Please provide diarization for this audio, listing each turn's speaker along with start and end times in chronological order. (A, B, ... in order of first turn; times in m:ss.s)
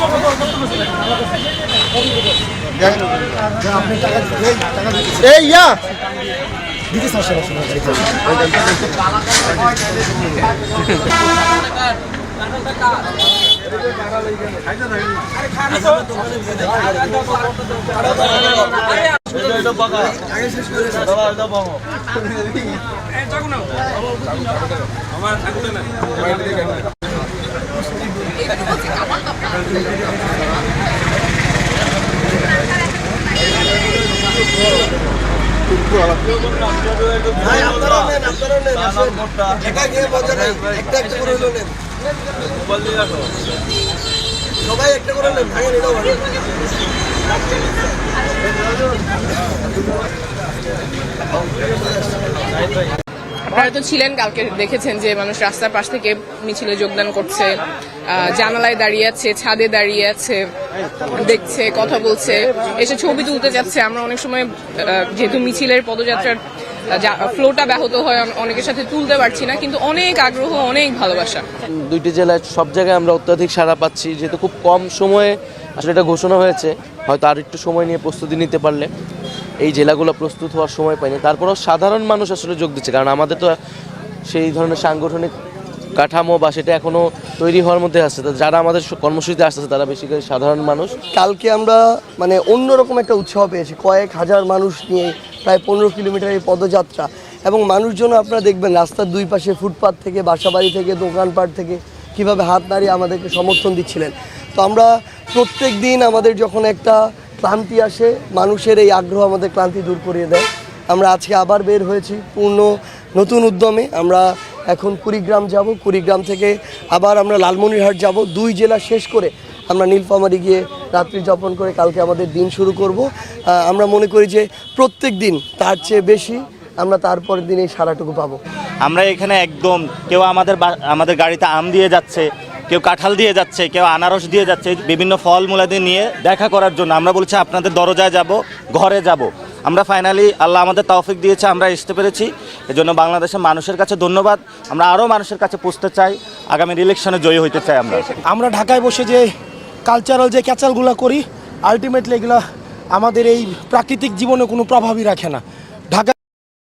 0:03.6-0:05.8 A
0:06.9-0:08.2 A
0:20.8-0:21.4 B
0:37.3-0:41.7 B
0:44.6-0:46.5 B
0:53.5-1:00.5 C
1:01.1-1:11.5 C
1:11.6-1:18.9 D
1:19.6-1:23.6 D
1:24.3-1:25.3 D
1:25.9-1:31.0 D
1:31.1-2:08.4 B
2:08.8-2:28.1 E
2:28.2-2:29.3 A
2:29.8-2:32.4 A
2:32.9-2:36.2 A